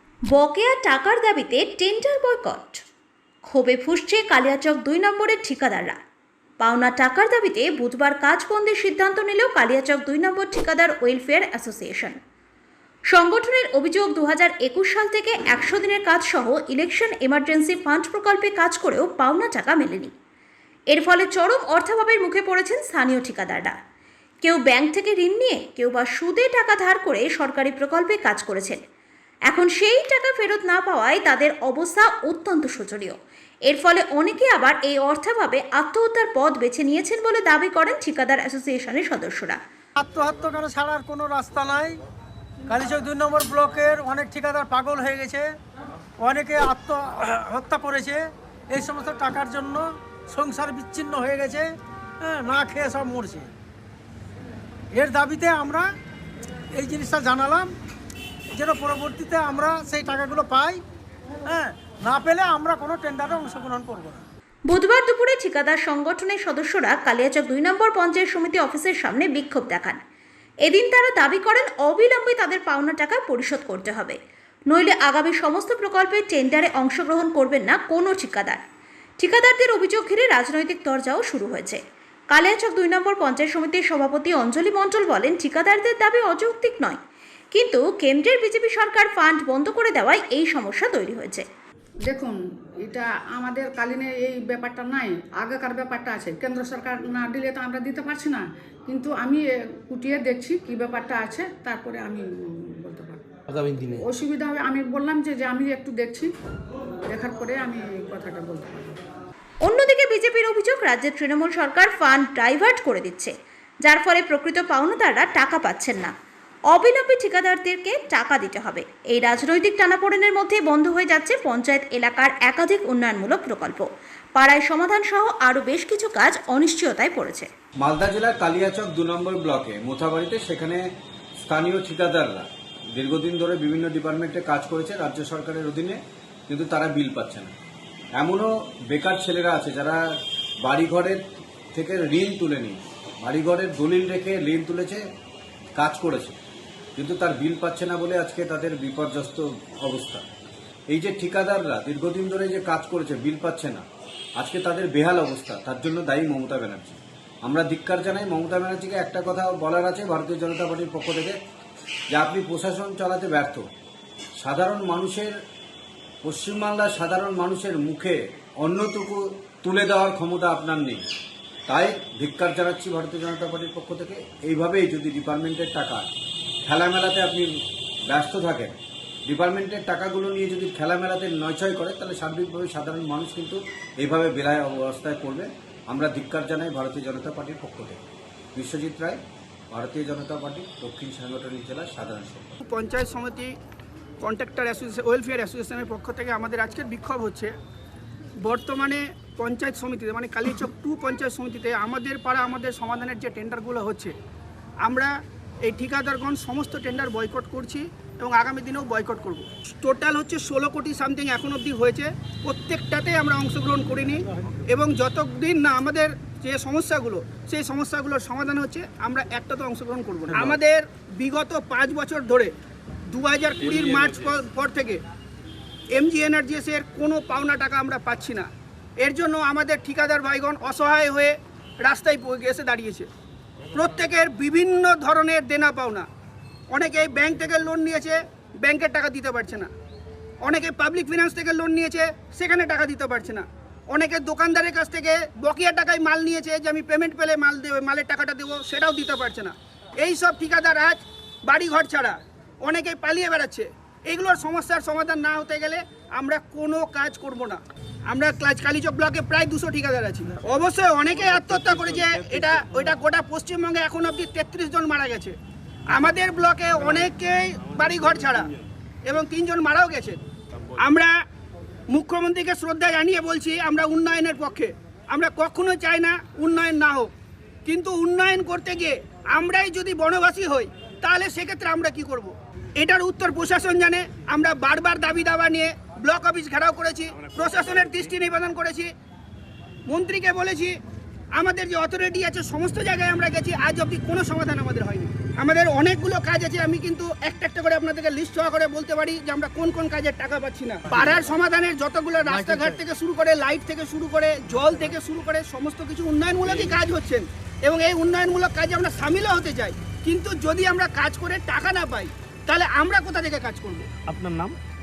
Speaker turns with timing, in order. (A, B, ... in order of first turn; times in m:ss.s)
0:00.3-0:02.8 A
0:03.4-0:06.0 A
0:06.6-0:12.2 A
0:13.1-0:20.1 A
0:20.9-0:23.8 A
0:24.4-0:28.8 A
0:29.5-0:39.6 A
0:40.0-0:42.0 B
0:42.7-0:45.5 B
0:46.2-0:53.5 B
0:54.9-0:55.9 B
0:56.7-0:57.7 B
0:58.5-1:00.8 B
1:01.5-1:04.2 B
1:04.7-1:10.0 A
1:10.6-1:14.2 A
1:14.7-1:18.6 A
1:19.2-1:21.8 A
1:22.3-1:27.0 A
1:27.5-1:31.4 A
1:32.1-1:32.4 C
1:32.9-1:43.2 C
1:43.5-1:44.0 D
1:44.0-1:46.3 C
1:47.1-1:49.0 C
1:49.6-1:53.3 A
1:53.8-1:56.1 A
1:56.7-2:07.5 A
2:07.8-2:10.8 E
2:11.4-2:17.5 E
2:18.2-2:20.0 E
2:20.6-2:21.2 E
2:21.7-2:25.0 E
2:25.8-2:26.4 E
2:27.0-2:30.2 E
2:30.9-2:33.8 E
2:34.4-2:41.4 E
2:42.1-2:43.6 E
2:44.4-2:45.3 E
2:46.2-2:51.0 E
2:51.7-2:56.1 E
2:56.7-2:57.5 E
2:58.1-2:58.8 E
2:59.3-3:08.0 E
3:08.6-3:09.2 E
3:09.7-3:12.6 E
3:12.6-3:13.5 F
3:14.2-3:17.5 F
3:18.4-3:24.1 F
3:24.8-3:25.1 F
3:25.6-3:42.5 F
3:43.1-3:45.0 F
3:46.0-3:48.5 F
3:49.0-3:53.1 F
3:53.7-3:56.1 F
3:56.7-3:59.7 F
4:00.4-4:25.4 F
4:21.2-4:22.7 D
4:25.9-4:28.5 F
4:29.1-4:30.2 F
4:30.8-4:31.1 F
4:31.9-4:37.1 F
4:37.7-4:48.9 F
4:49.9-4:50.8 F
4:51.4-5:13.9 F
5:02.3-5:02.8 B
5:14.1-5:14.6 D